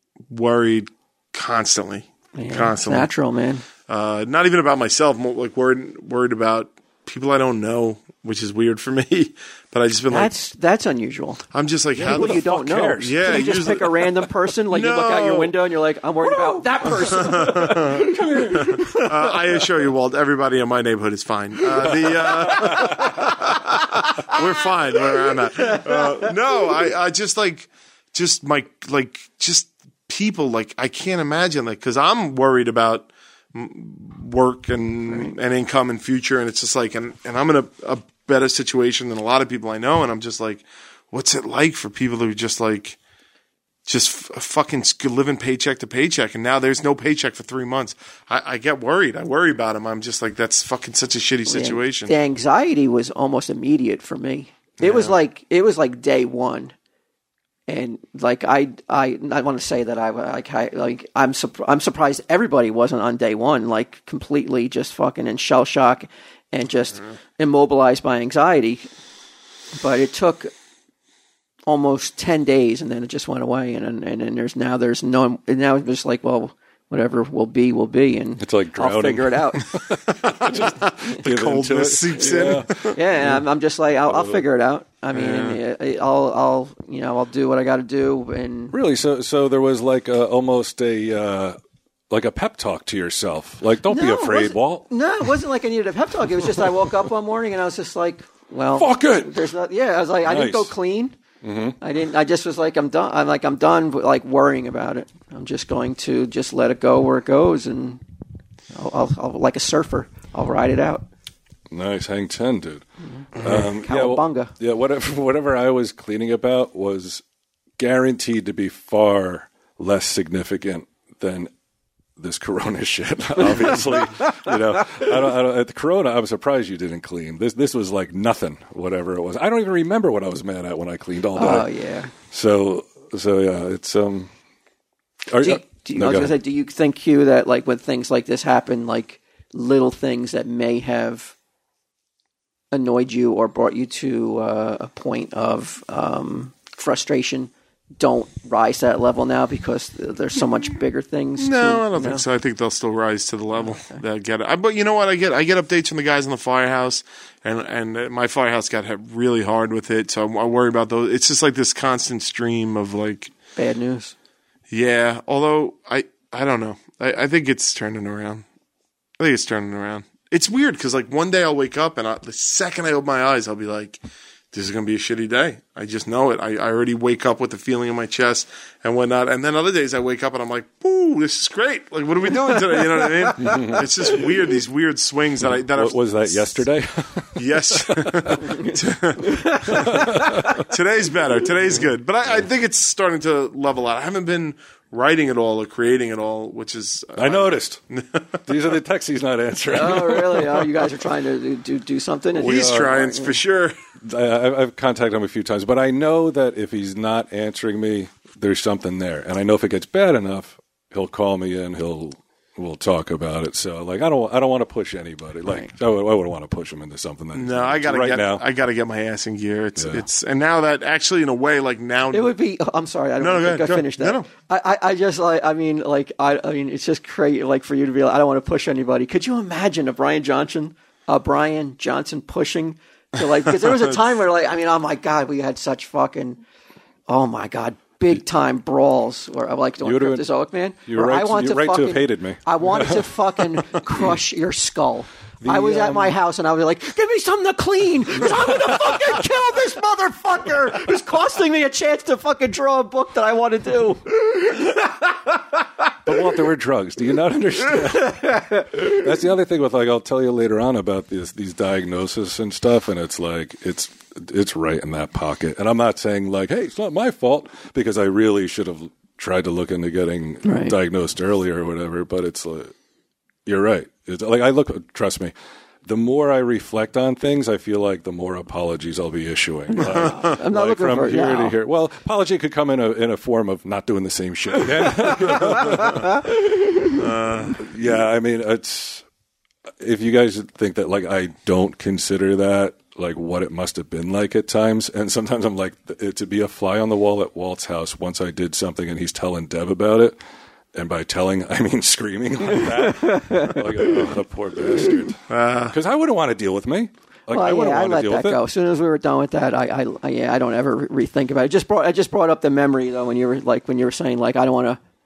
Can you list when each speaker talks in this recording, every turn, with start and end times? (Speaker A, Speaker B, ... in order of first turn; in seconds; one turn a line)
Speaker A: 0.3-3.1
Speaker B: 2.4-3.6
Speaker A: 3.9-10.3
Speaker B: 10.1-11.4
Speaker A: 11.5-12.4
Speaker C: 11.9-13.8
Speaker B: 12.0-19.3
Speaker A: 12.9-15.6
Speaker A: 16.9-43.0
Speaker C: 17.9-19.0
Speaker C: 21.8-23.3
Speaker B: 22.7-23.1
Speaker B: 25.5-26.3
Speaker A: 43.9-52.1
Speaker B: 51.5-56.7
Speaker A: 54.8-55.1
Speaker B: 57.7-68.8
Speaker B: 69.7-70.5
Speaker B: 71.7-79.7
Speaker C: 78.4-83.4
Speaker A: 80.2-83.0
Speaker B: 82.9-88.8
Speaker C: 84.1-84.4
Speaker A: 85.1-85.6
Speaker C: 88.7-91.6
Speaker C: 92.1-95.3
Speaker B: 93.9-101.2
Speaker C: 96.6-96.8
Speaker C: 98.7-99.4
Speaker C: 100.2-100.7
Speaker C: 101.4-101.8
Speaker B: 101.8-108.0
Speaker B: 108.7-111.1
Speaker C: 111.7-117.2
Speaker B: 113.1-114.5
Speaker C: 117.8-121.5
Speaker C: 122.2-134.3
Speaker B: 131.3-132.1
Speaker C: 135.3-136.3
Speaker B: 135.4-141.3
Speaker B: 142.7-152.2
Speaker A: 151.4-163.3
Speaker B: 163.6-164.1
Speaker A: 164.7-168.4
Speaker A: 169.2-174.0
Speaker A: 174.5-186.6
Speaker B: 182.8-183.7
Speaker C: 183.4-183.9
Speaker C: 185.4-188.5
Speaker A: 187.3-198.4
Speaker B: 188.4-190.6
Speaker C: 189.6-190.7
Speaker C: 197.2-197.8
Speaker C: 198.4-200.7
Speaker B: 199.7-203.4
Speaker A: 202.4-203.7
Speaker C: 202.4-202.9
Speaker C: 204.0-218.4
Speaker B: 215.5-215.7
Speaker A: 217.3-222.3
Speaker C: 219.8-220.0
Speaker B: 222.1-236.4
Speaker A: 223.2-224.3
Speaker B: 237.1-254.9
Speaker C: 239.8-240.3
Speaker C: 240.8-243.0
Speaker C: 245.4-246.2
Speaker C: 248.2-248.9
Speaker C: 256.0-272.7
Speaker B: 258.0-258.6
Speaker B: 270.4-270.7
Speaker C: 273.4-275.3
Speaker C: 275.8-286.3
Speaker B: 279.7-281.6
Speaker A: 286.9-287.6
Speaker C: 287.6-289.1
Speaker C: 289.8-300.2
Speaker C: 300.7-308.4
Speaker B: 302.8-304.0
Speaker A: 305.3-305.8
Speaker B: 307.3-314.8